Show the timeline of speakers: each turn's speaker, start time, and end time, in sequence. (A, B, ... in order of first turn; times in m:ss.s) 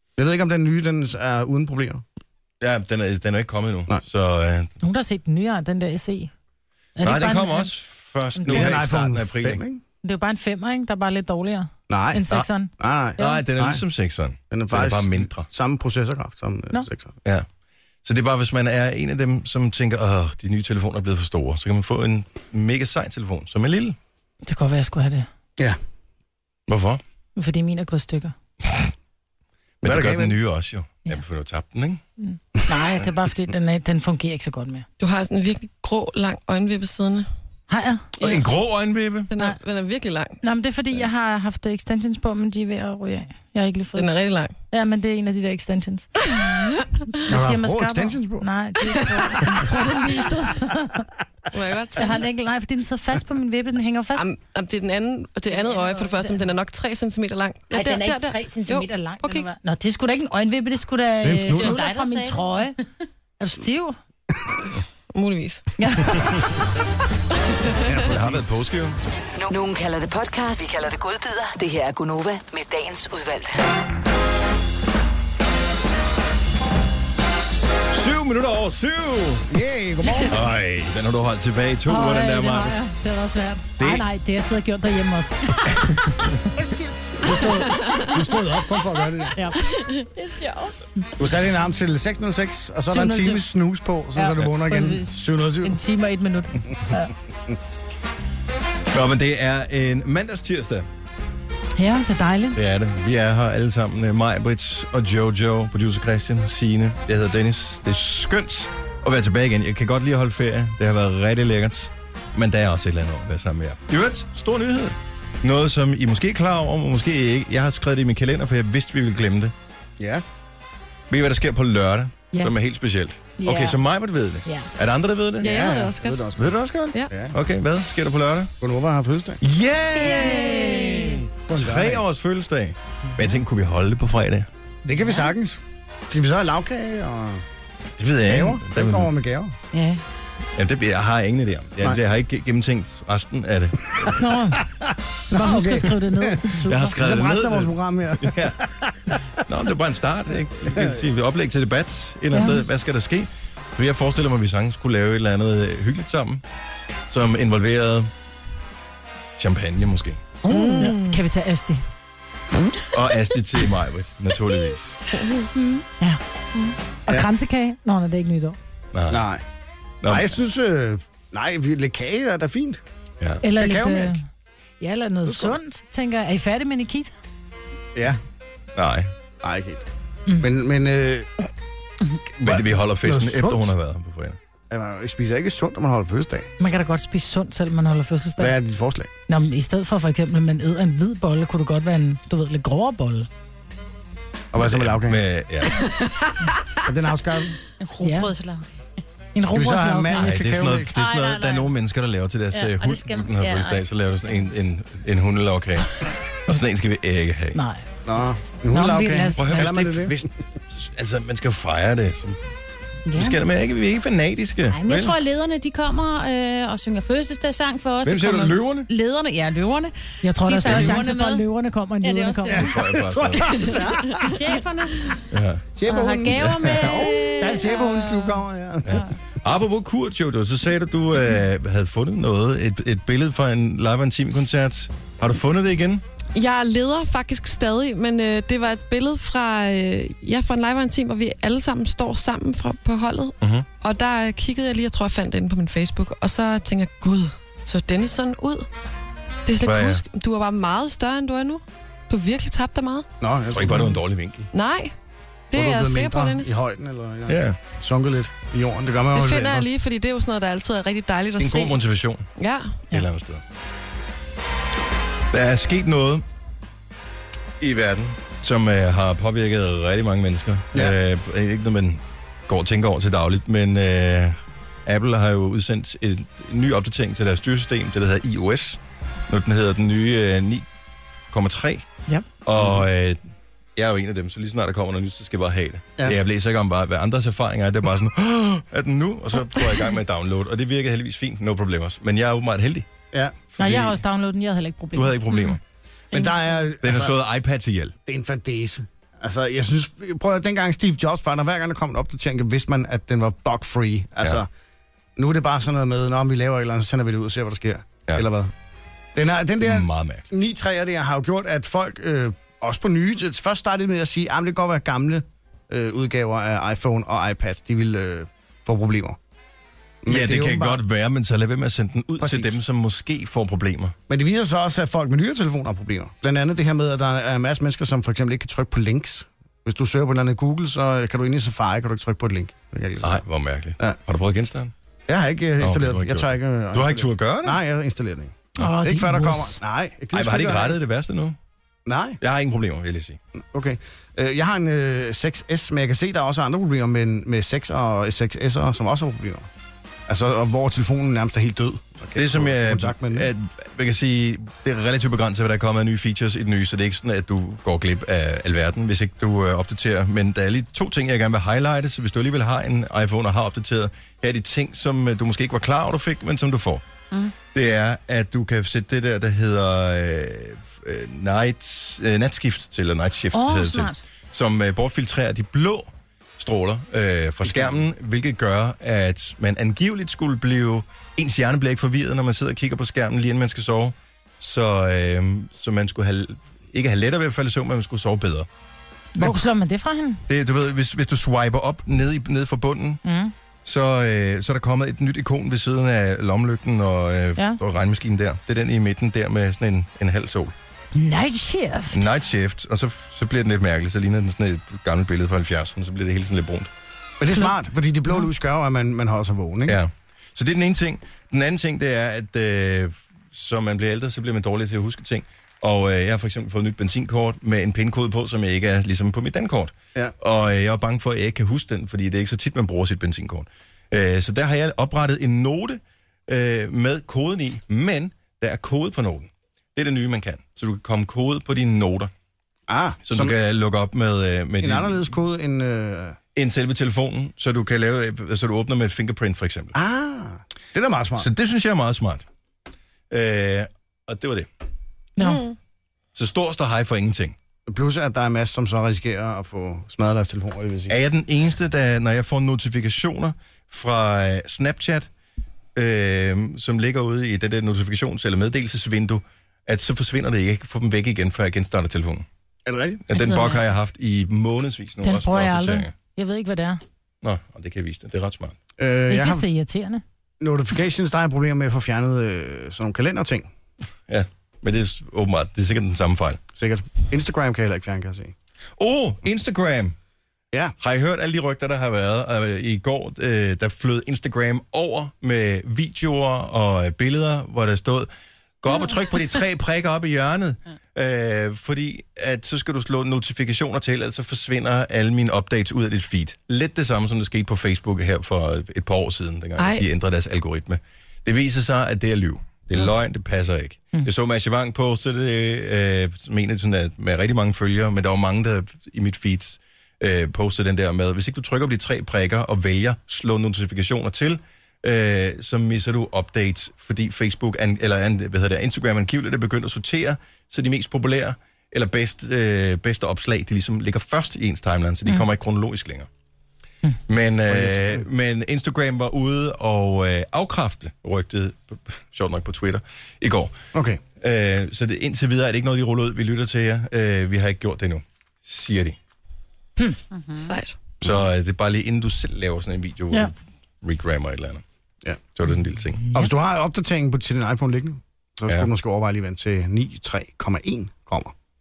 0:00.2-0:02.0 A
0:02.6-0:04.7 B
0:04.8-0:06.3 C
0:07.0-0:07.7 C
0:07.0-0:09.6 B
0:08.3-0:08.7 C
0:08.5-0:09.8 A
0:10.0-0:13.4 C
0:11.9-0:13.8 A
0:13.2-0:15.5 B
0:14.5-0:17.2 A
0:18.0-0:24.0 B
0:24.4-0:25.3 C
0:26.7-0:27.0 B
0:27.4-0:28.3 C
0:28.6-0:28.9 B
0:29.8-0:30.4 A
0:29.8-0:32.0 B
0:32.2-0:34.9 C
0:35.0-0:37.3 D
0:37.7-0:38.1 C
0:38.2-0:38.5 D
0:38.2-0:39.3 B
0:39.3-0:40.4 D
0:40.4-0:44.1 C
0:44.0-0:44.5 D
0:44.7-0:46.1 C
0:47.2-0:51.1 C
0:47.3-0:48.5 A
0:51.5-0:52.2 D
0:51.9-0:54.3 C
0:54.2-0:59.5 D
0:55.5-0:56.4 C
0:57.7-1:02.7 C
1:01.2-1:01.8 A
1:01.2-1:02.7 E
1:03.4-1:04.0 C
1:05.1-1:05.7 D
1:05.8-1:06.5 C
1:07.7-1:08.1 D
1:07.9-1:09.0 B
1:08.0-1:08.5 A
1:09.4-1:13.7 F
1:17.9-1:19.5 B
1:19.5-1:20.6 A
1:20.3-1:22.8 B
1:21.9-1:25.9 C
1:23.8-1:24.1 B
1:25.8-1:26.4 B
1:26.5-1:27.5 C
1:27.2-1:29.4 A
1:29.4-1:29.8 C
1:30.2-1:30.7 E
1:31.2-1:35.8 A
1:32.9-1:33.4 C
1:34.2-1:37.1 C
1:38.9-1:40.9 B
1:41.8-1:42.6 C
1:42.6-1:59.5 B
2:00.0-2:00.2 A
2:01.1-2:05.7 B
2:03.4-2:03.8 C
2:04.4-2:04.7 C
2:05.4-2:06.2 D
2:05.4-2:06.6 A
2:06.3-2:08.5 B
2:07.1-2:07.4 A
2:08.6-2:09.4 A
2:09.4-2:14.5 B
2:10.0-2:11.0 E
2:10.0-2:11.2 C
2:11.5-2:12.1 A
2:14.8-2:17.4 A
2:18.0-2:19.1 B
2:18.2-2:19.6 A
2:19.7-2:20.0 E
2:20.6-2:24.2 B
2:24.1-2:24.6 C
2:24.6-2:29.4 A
2:25.3-2:27.0 C
2:26.6-2:28.6 B
2:29.5-2:36.4 B
2:30.6-2:31.1 A
2:32.3-2:32.6 C
2:37.1-2:38.1 B
2:39.4-2:40.3 B
2:40.5-2:41.8 C
2:40.5-2:41.2 D
2:42.9-2:45.0 B
2:45.2-2:45.5 D
2:45.8-2:46.2 C
2:47.1-2:48.6 C
2:48.9-2:49.3 B
2:49.1-2:49.4 A
2:50.0-2:50.3 B
2:50.1-2:52.8 A
2:53.4-2:54.2 C
2:53.5-2:54.2 A
2:54.8-2:57.2 C
2:55.3-2:55.6 A
2:58.0-2:58.2 A
2:58.8-2:59.1 B
2:59.4-2:59.9 A
3:00.4-3:01.3 A
3:02.4-3:04.4 B
3:02.4-3:03.8 A
3:04.7-3:06.5 A
3:06.6-3:08.6 C
3:08.4-3:09.1 A
3:09.3-3:13.3 C
3:14.5-3:15.3 A
3:14.6-3:16.0 B
3:15.8-3:16.1 D
3:16.8-3:17.6 A
3:17.8-3:18.7 E
3:18.0-3:18.3 C
3:19.4-3:20.3 C
3:19.5-3:20.9 A
3:20.2-3:27.6 B
3:20.9-3:21.7 E
3:22.5-3:24.5 E
3:27.5-3:27.8 C
3:28.0-3:30.3 A
3:28.7-3:29.8 C
3:29.4-3:32.4 B
3:33.1-3:33.4 E
3:33.2-3:35.2 B
3:34.7-3:39.9 E
3:38.0-3:38.9 B
3:40.2-3:42.7 C
3:40.5-3:41.4 E
3:42.0-3:42.8 E
3:42.5-3:44.4 A
3:42.6-3:43.5 B
3:44.2-3:45.2 E
3:45.3-3:45.7 B
3:45.8-3:49.0 A
3:45.9-3:49.1 E
3:46.4-3:47.1 B
3:48.9-3:56.0 B
3:56.4-4:08.7 D
4:03.4-4:03.7 B
4:09.5-4:13.1 D
4:09.6-4:10.0 B
4:13.2-4:14.0 A
4:13.5-4:14.5 B
4:14.5-4:14.9 D
4:15.5-4:16.6 D
4:15.5-4:19.7 A
4:17.3-4:17.6 B
4:19.1-4:21.8 D
4:21.4-4:22.3 B
4:22.4-4:22.8 D
4:22.9-4:23.4 B
4:25.3-4:26.2 B
4:27.6-4:40.6 B
4:41.3-4:41.9 B
4:42.4-4:43.2 B
4:42.6-4:42.8 A
4:43.8-4:52.9 B
4:53.6-4:54.0 B
4:53.6-4:55.6 C
4:55.0-4:55.6 B
4:56.1-4:57.2 A
4:56.8-4:58.0 B
4:58.1-5:04.5 A
5:05.2-5:08.5 A
5:09.2-5:19.2 A
5:09.6-5:10.3 B
5:20.0-5:20.8 A
5:20.1-5:24.0 B
5:22.2-5:22.6 A
5:24.1-5:33.2 A
5:33.0-5:34.7 B
5:35.1-5:40.8 A
5:35.6-5:37.6 B
5:38.6-5:39.6 C
5:40.1-5:41.4 B
5:41.9-5:42.2 A
5:42.2-5:43.2 B
5:43.5-5:49.5 A
5:50.1-5:53.3 A
5:52.2-6:06.8 B
6:07.5-6:28.5 B
6:13.3-6:14.0 E
6:17.4-6:17.8 A
6:29.2-6:30.2 C
6:30.3-6:33.0 B
6:33.0-6:33.3 C
6:33.6-6:40.5 B
6:40.9-6:42.0 C
6:41.9-6:46.7 B
6:47.2-6:49.8 A
6:47.3-6:47.6 C
6:49.7-7:12.1 B
7:12.7-7:13.4 A
7:13.1-7:15.1 B
7:14.6-7:16.2 A
7:16.4-7:19.8 B
7:19.7-7:21.3 A
7:21.2-7:22.2 B
7:23.1-7:24.5 B
7:25.2-7:25.4 C
7:25.2-7:25.6 D
7:26.2-7:27.4 B
7:27.7-7:31.0 A
7:30.9-7:35.1 B
7:35.8-7:42.3 B
7:42.7-7:43.0 A
7:43.1-7:45.9 B
7:43.1-7:43.6 E
7:45.0-7:46.8 C
7:47.2-7:48.6 B
7:48.8-7:49.5 A
7:49.1-7:50.0 C
7:50.4-7:53.5 A
7:54.1-7:56.4 B
7:56.6-7:58.3 A
7:58.8-7:59.9 B
8:00.8-8:08.1 B
8:08.6-8:46.1 B
8:19.6-8:19.9 D
8:47.1-8:53.6 B
8:47.5-8:48.1 A
8:53.7-8:54.0 A
8:54.2-8:59.0 B
9:00.1-9:00.5 E
9:00.4-9:00.8 D
9:01.0-9:04.6 B
9:05.4-9:06.1 B
9:06.1-9:11.3 A